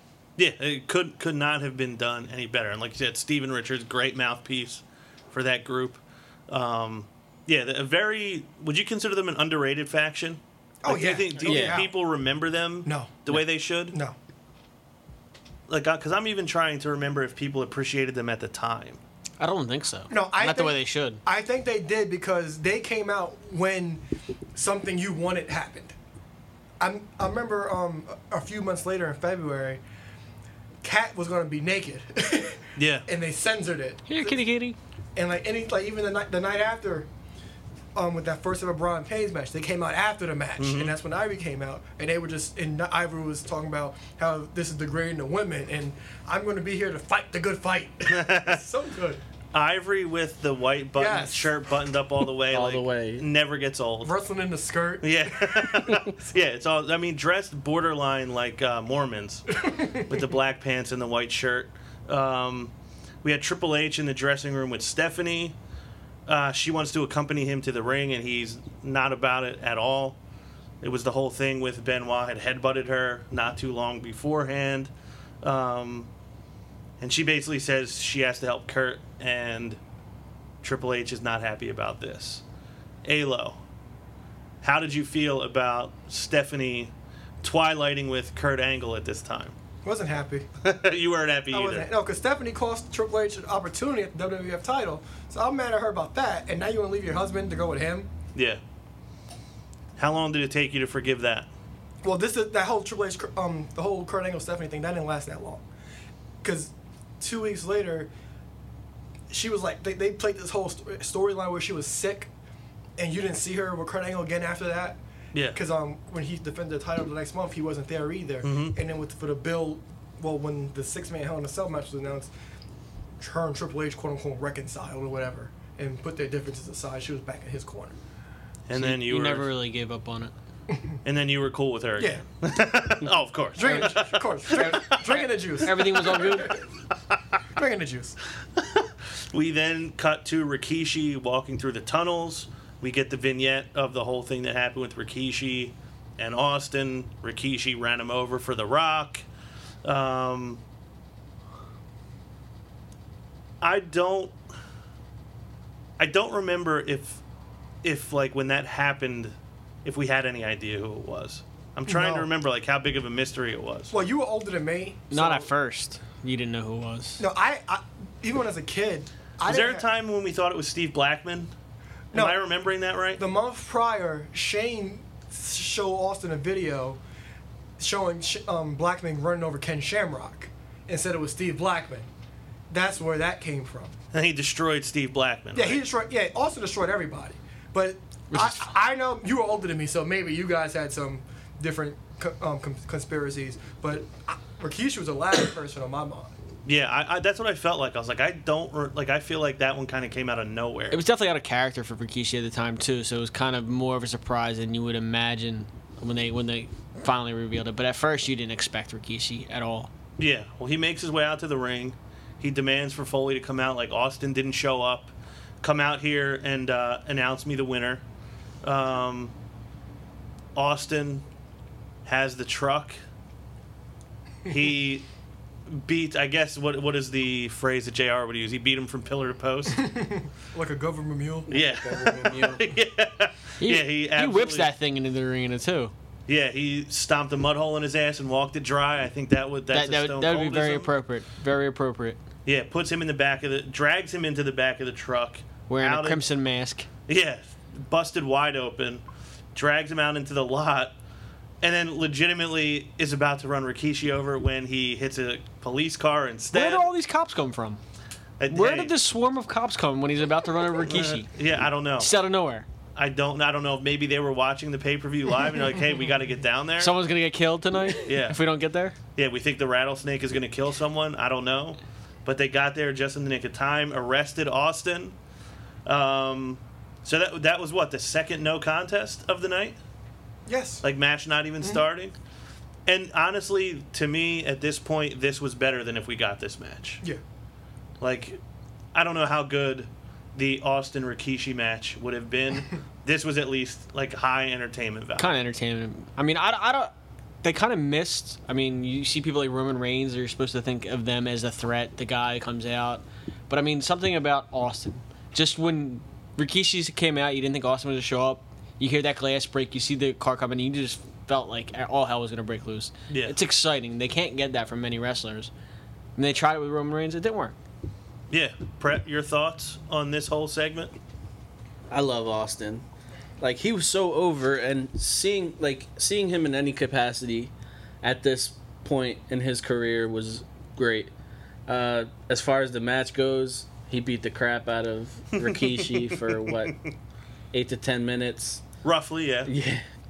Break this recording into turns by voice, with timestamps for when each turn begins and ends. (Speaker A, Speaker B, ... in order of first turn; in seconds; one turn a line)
Speaker A: 0.4-13.9
Speaker B: 10.8-11.9
Speaker C: 11.4-11.8
Speaker B: 12.8-13.1
Speaker B: 13.9-14.2
Speaker A: 15.7-19.0
Speaker D: 19.4-21.2
Speaker B: 20.1-24.0
Speaker B: 24.6-25.9
Speaker B: 26.8-29.8
Speaker B: 30.8-34.4
Speaker A: 32.8-33.1
Speaker D: 34.1-34.8
Speaker B: 35.1-37.1
Speaker B: 37.9-49.2
Speaker A: 40.6-40.9
Speaker A: 48.1-48.6
Speaker A: 49.5-54.1
Speaker B: 51.0-51.5
Speaker C: 52.5-53.2
Speaker B: 54.0-56.1
Speaker A: 55.0-62.7
Speaker B: 59.6-60.0
Speaker A: 63.2-65.6
Speaker A: 66.3-70.2
Speaker A: 70.8-74.9
Speaker A: 75.4-76.1
Speaker A: 77.0-79.8
Speaker A: 80.6-82.4
Speaker A: 83.0-83.6
Speaker A: 84.6-89.5
Speaker B: 89.8-90.5
Speaker A: 90.6-91.9
Speaker B: 91.5-98.1
Speaker A: 98.3-98.6
Speaker A: 100.0-101.5
Speaker B: 102.0-105.6
Speaker B: 106.4-108.1
Speaker B: 109.3-112.3
Speaker B: 113.0-115.0
Speaker B: 115.5-122.3
Speaker A: 118.4-118.8
Speaker B: 123.2-127.9
Speaker A: 128.7-129.5
Speaker D: 128.7-130.3
Speaker A: 131.1-135.2
Speaker B: 132.0-132.2
Speaker B: 133.6-136.6
Speaker D: 135.6-136.6
Speaker B: 137.6-138.2
Speaker A: 138.6-149.2
Speaker A: 149.8-150.6
Speaker A: 153.6-154.3
Speaker A: 156.0-157.2
Speaker A: 157.8-163.9
Speaker B: 161.9-162.3
Speaker B: 163.9-165.5
Speaker D: 165.1-167.2
Speaker B: 167.2-169.8
Speaker A: 169.5-171.5
Speaker A: 172.1-173.2
Speaker B: 173.2-177.0
Speaker B: 177.8-182.1
Speaker B: 182.7-183.9
Speaker A: 184.1-185.8
Speaker B: 185.6-196.3
Speaker D: 188.3-188.7
Speaker A: 196.7-201.0
Speaker D: 200.9-209.9
Speaker A: 210.2-218.0
Speaker A: 218.6-219.3
Speaker A: 220.6-221.2
Speaker A: 222.1-223.0
Speaker A: 224.4-225.1
Speaker A: 225.7-229.8
Speaker B: 229.8-231.5
Speaker C: 231.5-232.7
Speaker A: 231.5-234.7
Speaker D: 233.6-235.9
Speaker A: 236.3-240.9
Speaker D: 239.7-242.2
Speaker A: 242.4-246.2
Speaker D: 245.7-246.9
Speaker A: 247.1-249.0
Speaker A: 249.6-250.9
Speaker A: 251.6-256.9
Speaker D: 256.5-257.8
Speaker A: 258.4-258.9
Speaker D: 258.5-261.3
Speaker A: 260.9-262.1
Speaker D: 262.0-262.7
Speaker A: 262.9-266.9
Speaker D: 266.8-268.9
Speaker A: 268.0-268.4
Speaker A: 269.1-275.1
Speaker A: 275.9-279.8
Speaker B: 280.5-280.8
Speaker A: 280.8-282.1
Speaker A: 282.9-287.0
Speaker A: 288.0-288.4
Speaker A: 288.9-295.3
Speaker D: 295.2-296.9
Speaker D: 297.4-315.5
Speaker A: 313.1-313.4
Speaker D: 316.1-317.6
Speaker A: 318.3-320.9
Speaker C: 321.9-322.8
Speaker C: 323.4-331.1
Speaker C: 331.7-336.8
Speaker A: 335.4-336.8
Speaker C: 337.5-338.6
Speaker A: 338.8-339.5
Speaker C: 339.4-339.9